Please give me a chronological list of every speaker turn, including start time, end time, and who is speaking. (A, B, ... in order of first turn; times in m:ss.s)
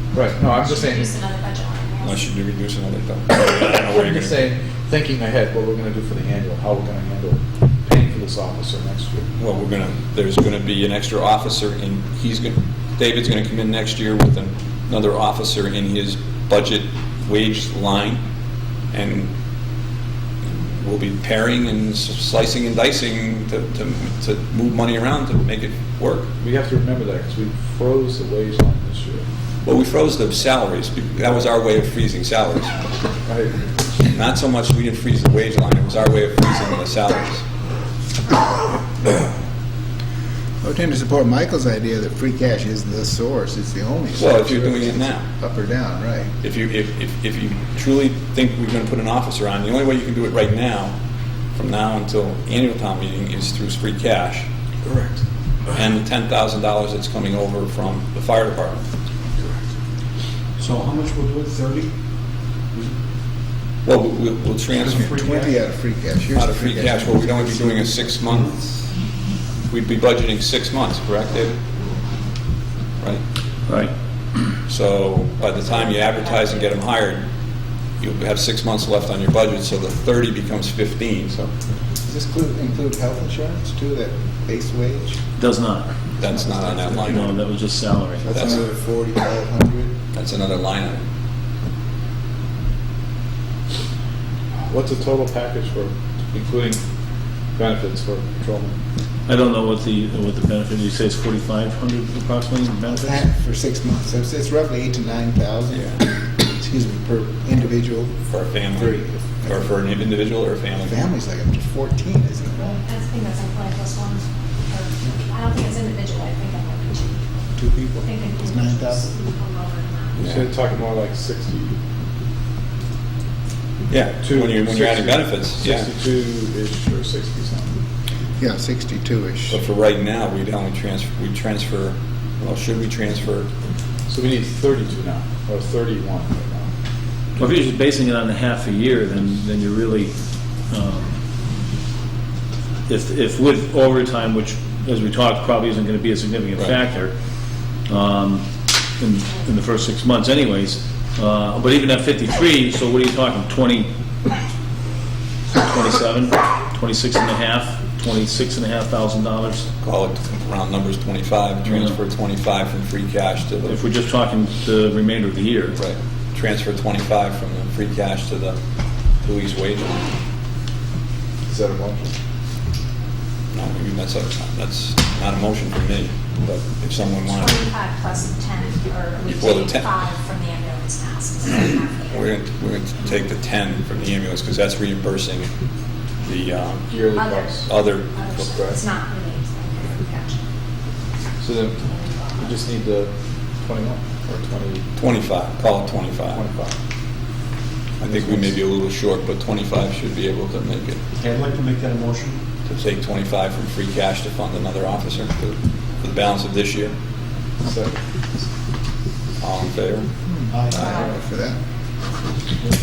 0:00.1-0:01.1 A
0:00.5-0:02.2 B
0:02.0-0:04.4 C
0:03.3-0:09.3 A
0:09.4-0:18.2 C
0:18.9-0:19.3 C
0:20.7-0:26.3 C
0:26.4-0:29.2 A
0:29.6-0:32.8 C
0:33.2-0:33.7 A
0:34.1-0:37.4 C
0:40.6-0:46.3 D
0:44.2-0:45.2 C
0:46.4-0:50.9 C
0:51.5-0:54.5 C
0:55.7-0:58.8 C
1:00.6-1:01.9 E
1:03.8-1:05.2 C
1:04.8-1:08.0 D
1:04.8-1:05.5 E
1:06.3-1:08.6 C
1:08.2-1:08.5 E
1:09.7-1:11.6 C
1:13.7-1:13.9 F
1:14.7-1:17.3 C
1:18.0-1:21.5 C
1:22.0-1:25.2 D
1:25.4-1:25.9 F
1:26.2-1:27.3 C
1:26.2-1:27.2 D
1:27.1-1:28.3 F
1:28.2-1:29.9 D
1:28.3-1:28.6 C
1:30.1-1:31.0 C
1:34.7-1:36.8 A
1:37.6-1:38.8 A
1:39.3-1:43.2 F
1:42.9-1:48.2 D
1:45.7-1:46.0 C
1:48.3-1:51.1 C
1:50.8-1:52.8 D
1:52.8-1:57.2 B
1:57.6-1:59.1 D
1:58.0-2:00.2 B
2:00.2-2:00.4 C
2:00.2-2:01.7 A
2:03.9-2:05.9 C
2:04.2-2:07.7 A
2:08.4-2:09.6 D
2:09.5-2:13.5 C
2:14.1-2:16.7 A
2:17.4-2:20.1 F
2:20.7-2:21.2 F
2:22.9-2:27.1 F
2:27.9-2:28.4 F
2:29.0-2:33.9 F
2:35.5-2:39.7 F
2:39.8-2:43.8 C
2:43.6-2:45.8 F
2:45.8-2:48.6 C
2:49.2-2:50.1 C
2:51.5-2:52.1 A
2:53.5-2:57.6 C
2:57.2-3:02.2 B
2:59.3-2:59.9 C
3:02.1-3:05.5 C
3:06.2-3:06.9 C
3:06.9-3:07.7 A
3:07.1-3:10.4 B
3:07.6-3:08.1 C
3:08.4-3:08.8 A
3:11.4-3:14.8 A
3:11.8-3:12.4 B
3:15.0-3:16.4 C
3:16.3-3:16.7 A
3:18.0-3:21.0 C
3:18.0-3:18.5 A
3:21.1-3:22.4 E
3:22.7-3:26.9 C
3:27.6-3:28.0 A
3:29.4-3:30.1 C
3:30.3-3:31.6 D
3:30.5-3:30.9 E
3:30.7-3:31.1 C